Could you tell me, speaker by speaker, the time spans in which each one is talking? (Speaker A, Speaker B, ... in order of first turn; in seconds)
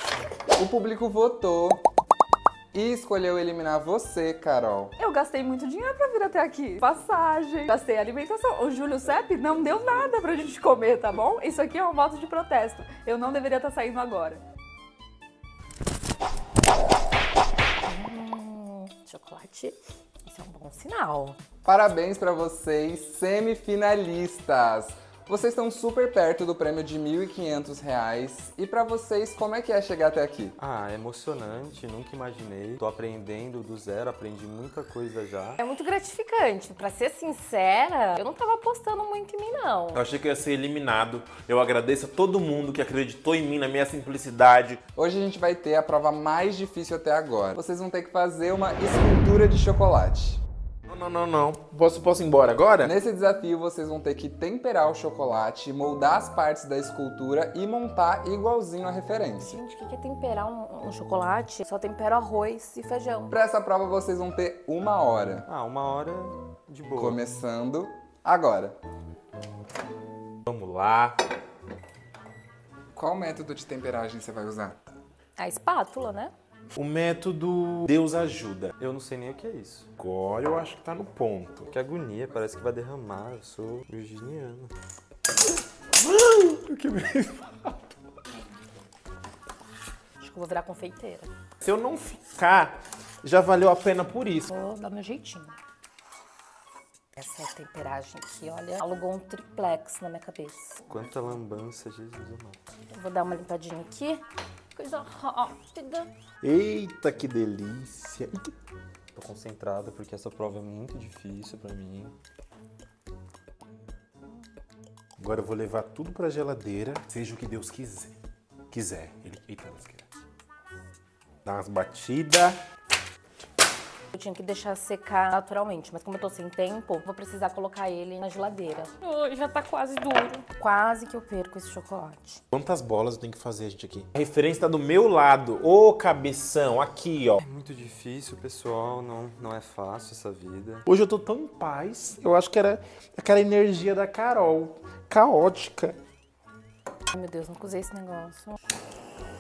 Speaker A: 0.5-1.8, 2.7-4.9, 21.6-30.6, 45.0-50.4, 52.8-59.6, 63.3-65.5, 66.9-68.8, 72.9-74.8
Speaker B: 5.0-14.4
Speaker C: 17.9-21.4, 35.6-40.0, 59.4-63.3, 75.4-76.3, 90.2-91.3, 94.5-95.6, 97.2-100.8, 102.9-104.2, 104.8-106.1, 124.1-132.4, 147.1-148.6
Speaker D: 30.6-35.6, 65.5-67.2, 78.8-79.9, 81.7-84.7, 100.8-102.6, 109.1-112.2, 137.4-140.9
Speaker E: 39.9-44.8, 50.9-52.9, 70.5-71.2, 76.8-78.7, 80.0-81.7, 86.0-87.7, 91.6-94.5, 106.4-108.5, 115.2-118.1, 118.7-120.1, 121.4-122.6, 132.5-137.4, 140.9-146.0